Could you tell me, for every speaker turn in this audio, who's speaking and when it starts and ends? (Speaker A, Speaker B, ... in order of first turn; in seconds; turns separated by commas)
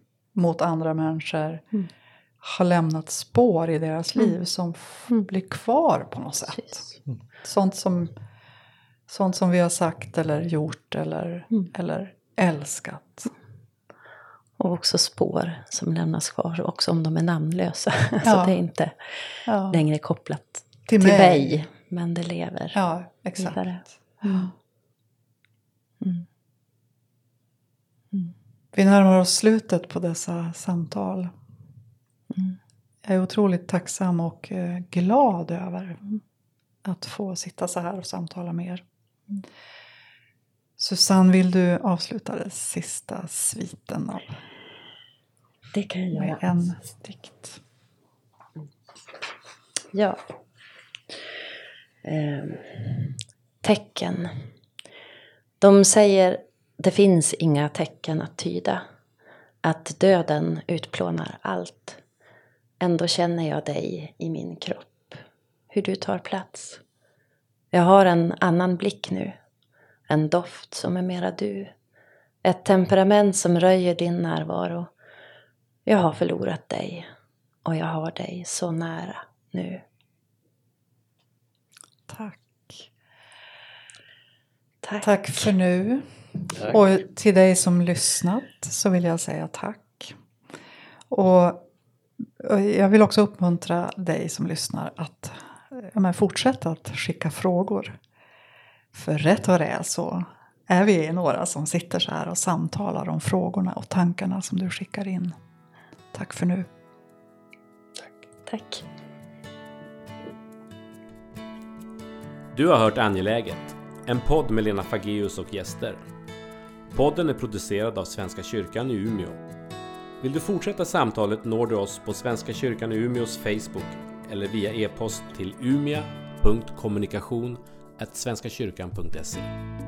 Speaker A: 0.3-1.6, Speaker A: 2.4-6.9, Speaker B: 6.5-6.9, Speaker A: 7.4-8.1, Speaker A: 9.1-13.3, Speaker B: 14.6-22.8, Speaker A: 18.2-18.6, Speaker A: 19.4-19.8, Speaker A: 20.9-21.6, Speaker A: 22.7-24.5, Speaker B: 23.4-24.5, Speaker B: 26.0-26.2, Speaker A: 28.7-31.3, Speaker A: 33.0-36.1, Speaker A: 36.8-38.8, Speaker A: 40.8-44.4, Speaker B: 45.7-46.7, Speaker A: 46.1-47.6, Speaker B: 49.9-50.2, Speaker B: 52.0-54.5, Speaker B: 55.6-58.8, Speaker B: 59.6-62.0, Speaker B: 62.8-66.8, Speaker B: 67.7-69.4, Speaker B: 70.1-71.7, Speaker B: 72.4-74.9, Speaker B: 75.8-77.1, Speaker B: 77.6-79.8, Speaker A: 82.1-82.9, Speaker B: 84.8-85.5, Speaker A: 85.0-90.2, Speaker A: 91.1-91.6, Speaker A: 92.2-98.0, Speaker A: 98.9-105.3, Speaker A: 106.1-106.7, Speaker B: 108.5-108.8, Speaker C: 112.5-116.0, Speaker C: 116.9-119.4, Speaker C: 120.2-129.5